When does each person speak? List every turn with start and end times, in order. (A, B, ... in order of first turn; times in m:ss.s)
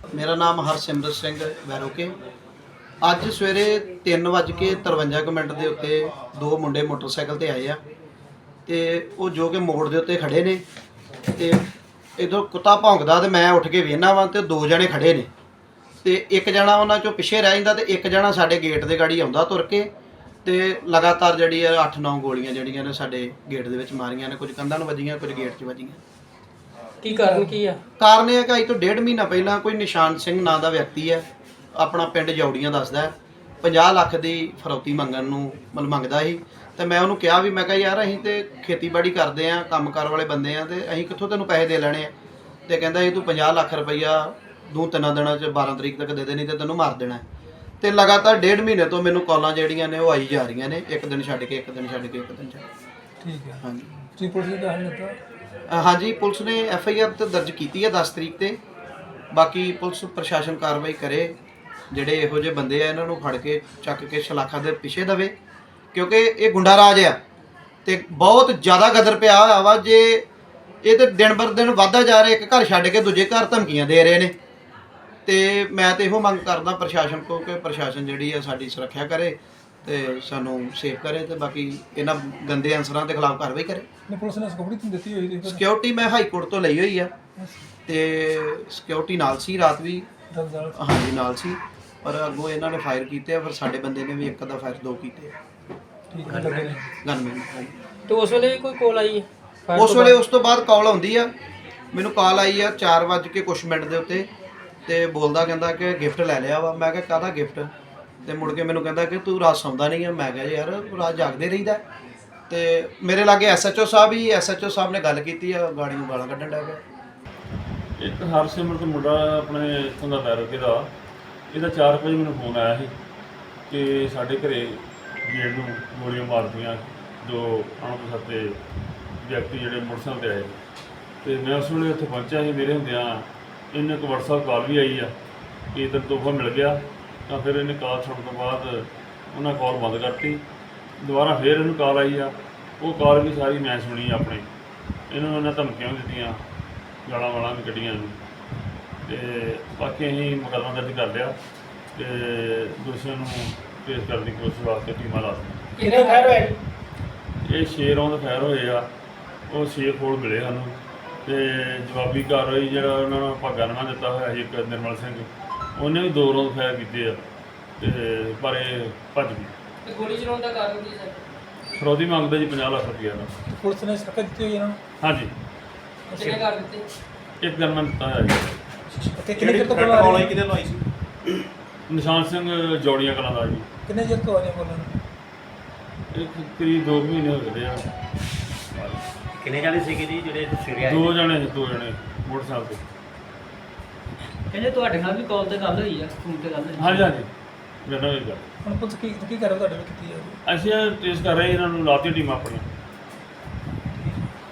0:00.1-0:02.1 A
0:03.0-0:07.8 A
0:08.7-0:10.6 A
0:11.4-0:11.6 A
0:12.2-0:15.3 A
0:16.0-0:19.9 A
0:20.4-0:26.0 A
0:27.0-0:27.8 B
0:27.0-0:27.6 C
0:28.0-0:42.1 A
0:42.7-0:47.2 A
0:47.8-0:52.6 A
0:53.2-0:55.2 C
0:55.7-0:58.6 A
0:59.3-1:01.4 A
1:01.9-1:05.3 A
1:05.9-1:07.2 A
1:07.8-1:10.3 A
1:10.8-1:14.4 A
1:15.3-1:23.9 A
1:24.1-1:25.6 C
1:25.4-1:27.1 A
1:27.4-1:27.6 C
1:27.9-1:30.1 A
1:30.3-1:30.8 C
1:30.8-1:35.4 A
1:36.1-1:36.9 C
1:37.0-1:37.7 A
1:38.1-1:40.2 B
1:39.8-1:41.3 A
1:41.9-1:44.3 A
1:44.9-1:47.7 A
1:48.2-1:51.8 A
1:52.5-1:56.8 A
1:58.0-2:00.9 D
2:01.5-2:02.9 D
2:03.7-2:08.6 D
2:09.2-2:10.6 D
2:11.2-2:15.1 D
2:15.7-2:20.4 D
2:21.0-2:24.5 D
2:25.1-2:26.4 D
2:27.0-2:28.2 D
2:29.0-2:31.4 D
2:32.0-2:35.7 D
2:35.8-2:36.5 B
2:35.8-2:36.6 C
2:37.4-2:38.9 D
2:39.5-2:47.2 D
2:47.8-2:49.5 D
2:49.8-2:51.2 B
2:51.8-2:53.3 D
2:53.5-2:54.8 C
2:55.0-2:55.3 D
2:56.1-2:56.5 C
2:56.2-2:56.8 B
2:57.4-2:58.5 D
2:59.2-3:00.4 C
2:59.4-3:00.8 E
3:01.9-3:03.7 D
3:03.9-3:05.0 C
3:06.1-3:07.9 D
3:08.7-3:09.0 D
3:09.4-3:10.7 E
3:10.8-3:12.8 D
3:14.5-3:17.1 B
3:16.8-3:17.3 D
3:17.8-3:18.4 D
3:18.6-3:20.4 C
3:20.5-3:22.7 D